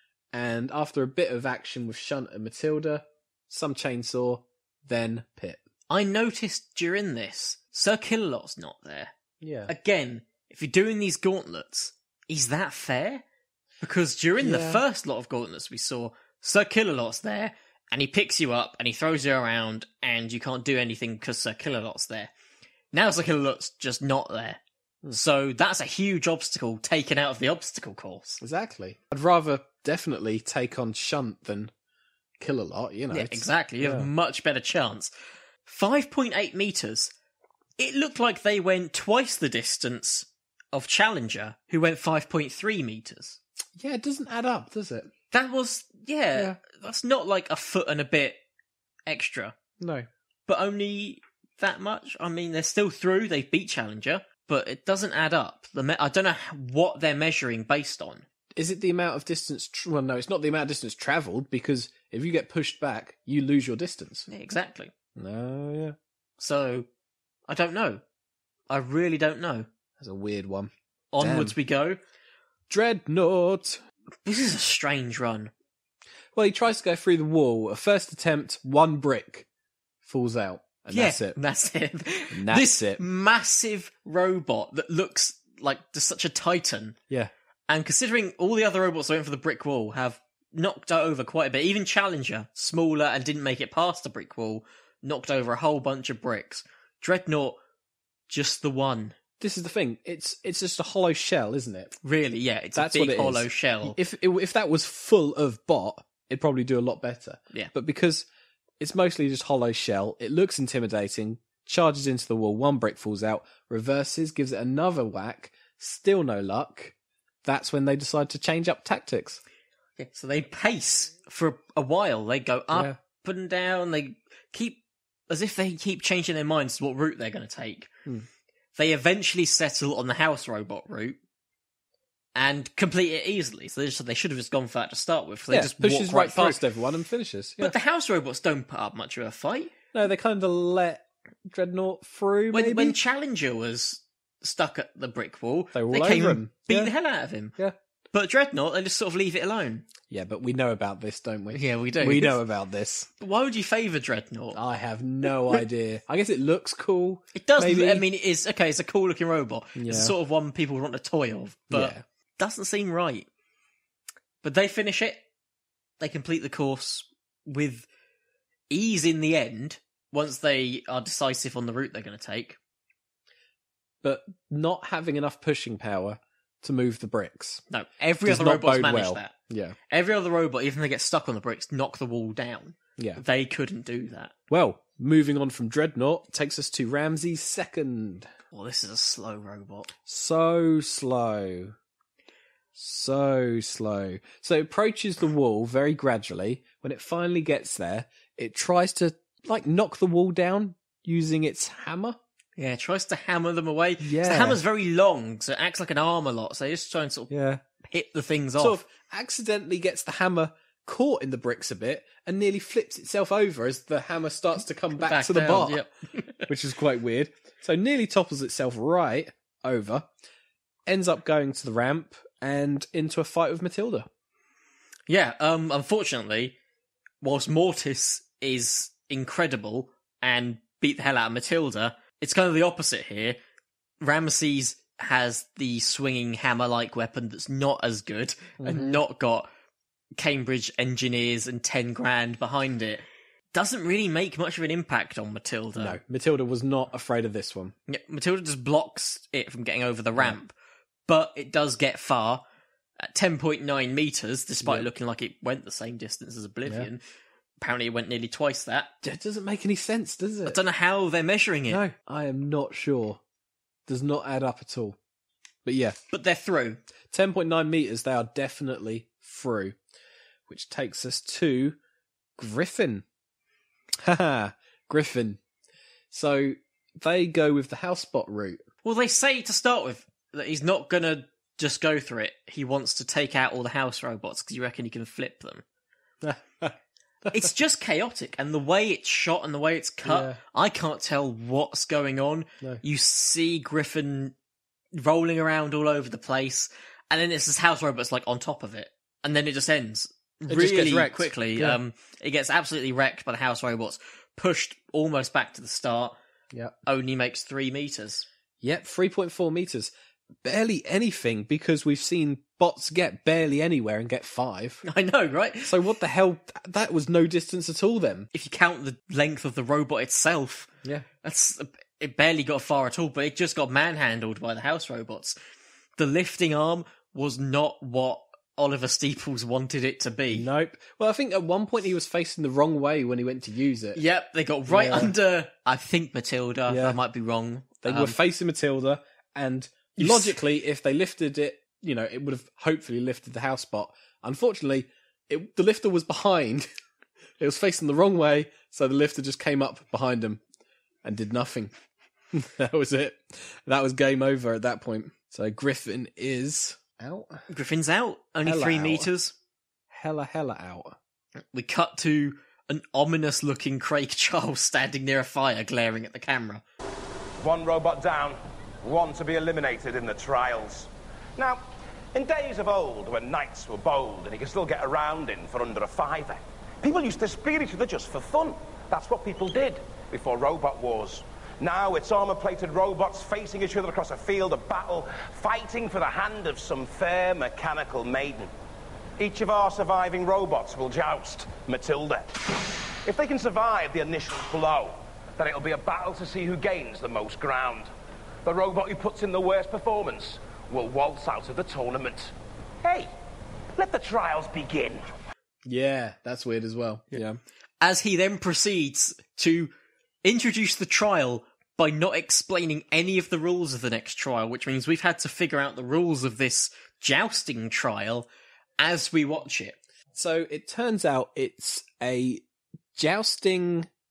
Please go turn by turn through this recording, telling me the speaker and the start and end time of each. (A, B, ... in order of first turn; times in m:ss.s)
0:00.3-0:05.6 A
0:05.9-0:09.1 B
0:09.4-0:09.7 A
0:09.7-0:13.2 B
0:13.8-0:22.3 B
0:14.4-0:14.8 A
0:22.9-0:24.6 B
0:25.1-0:28.4 B
0:28.4-0:31.7 A
0:32.4-0:34.1 A
0:33.1-0:35.1 B
0:35.7-0:37.1 B
0:37.8-0:43.4 B
0:43.8-0:45.1 A
0:45.3-0:48.4 B
0:49.1-0:49.5 B
0:49.8-0:50.1 A
0:50.5-0:58.2 B
0:58.6-1:04.3 A
1:04.3-1:04.9 B
1:05.2-1:06.0 A
1:06.4-1:06.9 B
1:07.5-1:08.0 B
1:08.7-1:09.7 B
1:10.0-1:11.6 A
1:11.1-1:12.0 B
1:12.7-1:13.8 A
1:14.2-1:15.5 B
1:16.3-1:19.5 A
1:20.0-1:21.4 A
1:20.9-1:27.0 B
1:22.3-1:23.0 A
1:27.7-1:37.6 B
1:38.3-1:39.2 B
1:39.4-1:42.0 A
1:42.0-1:44.0 B
1:42.8-1:48.3 A
1:48.8-1:56.9 A
1:57.4-1:59.4 A
2:00.0-2:07.9 B
2:02.7-2:03.0 A
2:08.8-2:11.2 B
2:12.4-2:16.6 B
2:15.5-2:17.8 A
2:17.6-2:19.7 B
2:19.9-2:23.0 A
2:22.5-2:27.6 B
2:25.7-2:26.9 A
2:28.1-2:29.8 B
2:30.1-2:33.1 A
2:31.5-2:32.4 B
2:33.2-2:34.6 B
2:34.5-2:38.0 A
2:37.4-2:43.3 B
2:39.8-2:40.2 A
2:41.7-2:42.0 A
2:44.4-2:45.2 B
2:46.0-2:47.9 B
2:48.7-2:52.6 B
2:54.0-2:57.6 A
2:57.7-2:59.3 B
2:58.2-2:59.8 A
2:59.9-3:04.3 B
3:03.0-3:03.2 A
3:04.5-3:08.3 A
3:08.5-3:09.9 B
3:10.1-3:11.8 A
3:12.8-3:22.2 A
3:22.6-3:27.3 B
3:24.0-3:24.6 A
3:27.3-3:27.6 A
3:27.8-3:28.8 B
3:28.6-3:35.8 A
3:35.0-3:36.5 B
3:36.5-3:40.1 A
3:40.9-3:44.1 A
3:45.1-3:46.6 B
3:47.2-3:53.4 B
3:54.0-3:59.5 B
3:58.6-3:59.0 A
4:00.2-4:06.0 B
4:05.8-4:07.7 A
4:07.9-4:10.5 B
4:11.1-4:12.4 B
4:13.0-4:17.0 B
4:17.6-4:18.9 B
4:19.0-4:20.6 A
4:20.5-4:21.8 B
4:21.7-4:23.2 A
4:23.9-4:25.0 A
4:25.6-4:26.0 A
4:26.1-4:26.8 B
4:27.1-4:29.8 A
4:30.5-4:31.8 A
4:32.4-4:33.0 A
4:34.0-4:35.4 A
4:36.1-4:38.6 A
4:38.8-4:45.6 B
4:46.2-4:46.8 A
4:47.3-4:54.3 B
4:50.0-4:50.4 A
4:55.0-5:06.2 B
5:00.5-5:01.8 A
5:06.9-5:08.2 B
5:08.6-5:09.9 A
5:10.4-5:14.8 A
5:14.8-5:15.8 B
5:15.6-5:18.3 A
5:18.3-5:20.7 B
5:21.2-5:25.4 B
5:26.0-5:30.5 B
5:30.3-5:34.0 A
5:34.0-5:38.2 B
5:34.7-5:35.1 A
5:36.7-5:37.0 A
5:37.8-5:46.7 A
5:40.0-5:40.4 B
5:47.4-5:50.4 A
5:51.0-5:51.7 A
5:52.3-5:57.4 A
5:57.5-5:59.3 B
5:58.4-5:59.1 A
5:59.9-6:01.0 A
6:01.5-6:06.6 B
6:07.4-6:11.6 C
6:12.1-6:28.5 C
6:29.2-6:32.4 C
6:33.0-6:37.9 C
6:38.4-6:42.3 C
6:42.8-6:43.1 C
6:43.8-6:45.0 C
6:45.6-6:47.4 A
6:47.8-6:49.7 B
6:50.2-6:58.3 B
6:58.8-6:59.8 B
7:00.1-7:02.4 A
7:03.0-7:03.9 A